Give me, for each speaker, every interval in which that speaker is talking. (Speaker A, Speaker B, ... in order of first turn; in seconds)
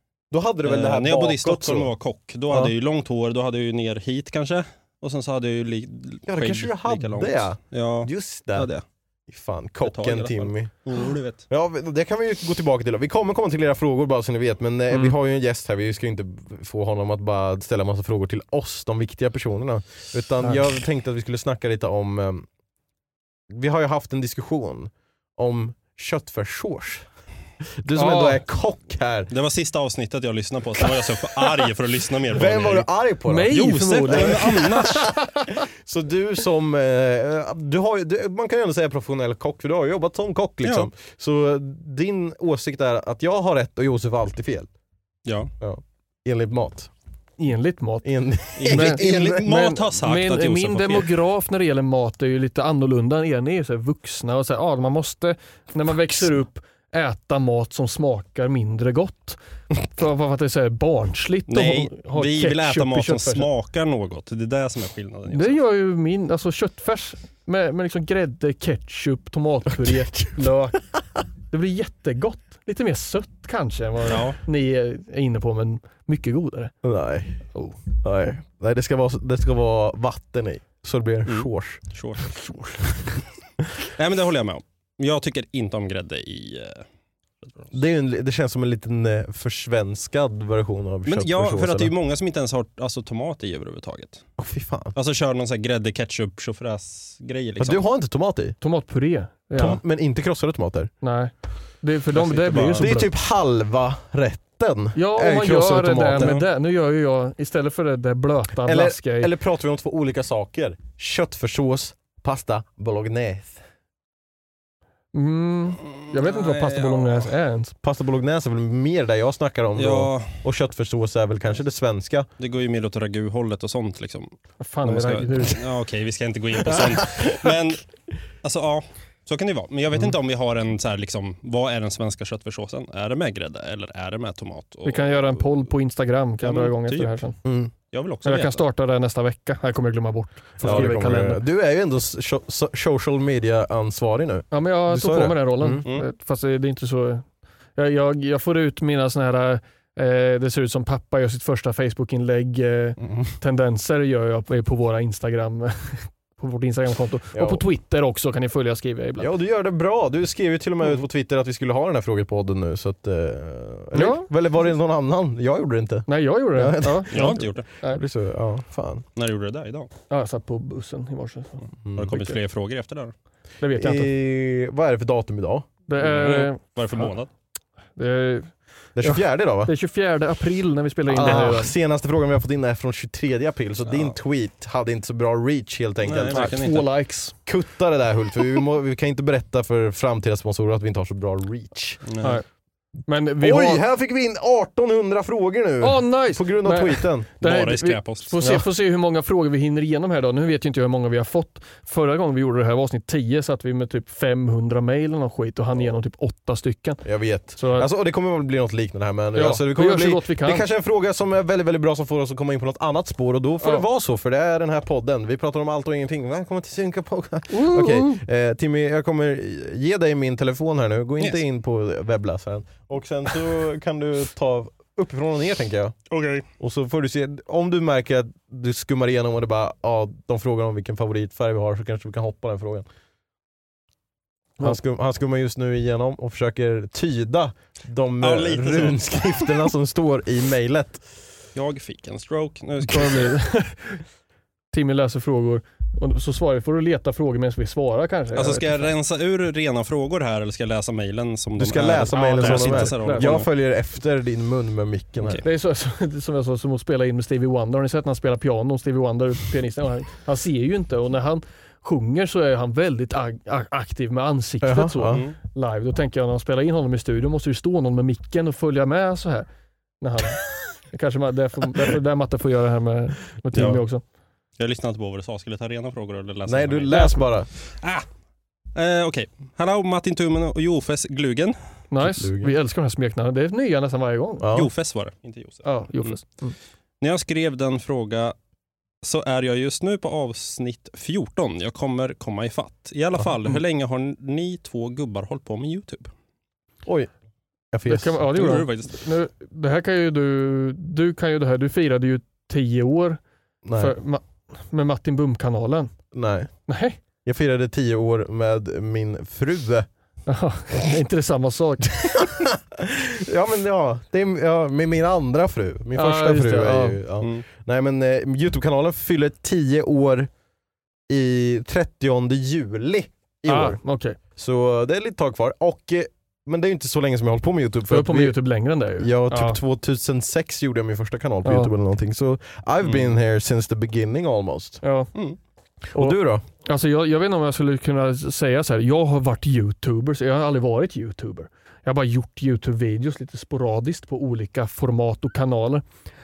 Speaker A: 0.3-1.9, 6.3-8.7, 9.3-10.8, 11.5-22.5, 23.5-27.0, 27.8-29.3, 30.8-31.7, 32.3-35.0, 35.7-44.7, 45.6-46.9, 48.0-49.5, 69.8-70.4, 76.8-77.4, 78.0-81.8, 87.7-91.9, 94.4-95.0, 97.6-98.6, 99.5-100.9, 102.7-106.4, 108.6-113.6, 117.8-122.3, 126.7-127.2, 137.4-137.7, 140.6-145.8, 157.3-157.6, 159.2-169.0, 171.8-172.3, 173.7-175.7, 178.9-179.7, 181.1-186.6, 187.4-192.0, 193.4-197.3, 207.0-226.0, 226.6-232.8, 234.6-241.0, 251.6-255.4, 264.6-265.2, 276.4-277.5, 282.0-282.5, 284.4-284.7, 297.7-298.2, 303.6-303.9, 306.1-306.5, 307.2-309.9, 312.2-320.3, 321.1-323.8, 324.4-328.4, 329.0-334.8, 335.9-336.4
Speaker B: 0.6-8.8, 9.8-11.4, 29.3-32.9, 33.5-35.1, 40.6-40.9, 45.2-45.5, 48.6-51.1, 61.5-65.6, 74.0-74.4, 81.2-82.2, 84.0-86.8, 87.4-87.7, 91.0-94.2, 94.9-97.8, 102.1-102.9, 106.2-106.4, 115.9-117.3, 119.8-120.4, 122.4-127.8, 128.4-135.6, 136.4-137.2, 137.9-138.6, 140.6-140.9, 167.1-167.7, 169.2-169.9, 171.9-173.1, 176.0-177.3, 183.9-184.1, 186.0-186.9, 192.1-192.4, 197.4-198.4, 226.1-226.4, 238.2-239.5, 241.5-243.3, 248.3-253.5, 265.1-265.3, 273.5-273.8, 274.6-277.0, 277.8-278.1, 278.7-281.6, 284.5-286.1, 287.0-288.3, 289.0-296.1, 298.3-299.0, 332.8-333.1
Speaker C: 27.9-28.4, 33.3-35.5, 47.4-48.1, 48.7-63.5, 65.3-70.8, 71.5-76.7, 82.4-82.7, 98.6-99.8, 101.0-103.1, 104.9-109.3, 115.1-117.7, 124.6-125.6, 134.8-137.4, 138.2-141.4, 144.5-147.2, 147.8-159.3, 163.9-164.3, 166.1-168.0, 170.1-171.6, 173.6-174.1, 175.9-176.6, 177.9-181.7, 186.3-187.3, 193.1-193.8, 195.8-207.0, 207.5-207.9, 209.3-210.6, 217.5-218.2, 242.9-244.0, 244.7-248.9, 252.1-253.3, 255.4-269.5, 270.0-274.0, 276.9-277.2, 281.9-284.5, 285.6-286.6, 297.9-303.2, 303.8-305.9, 306.7-307.0, 310.3-312.2, 315.9-317.0, 323.5-324.2, 327.9-329.6, 331.4-331.7, 334.8-335.1, 335.9-345.8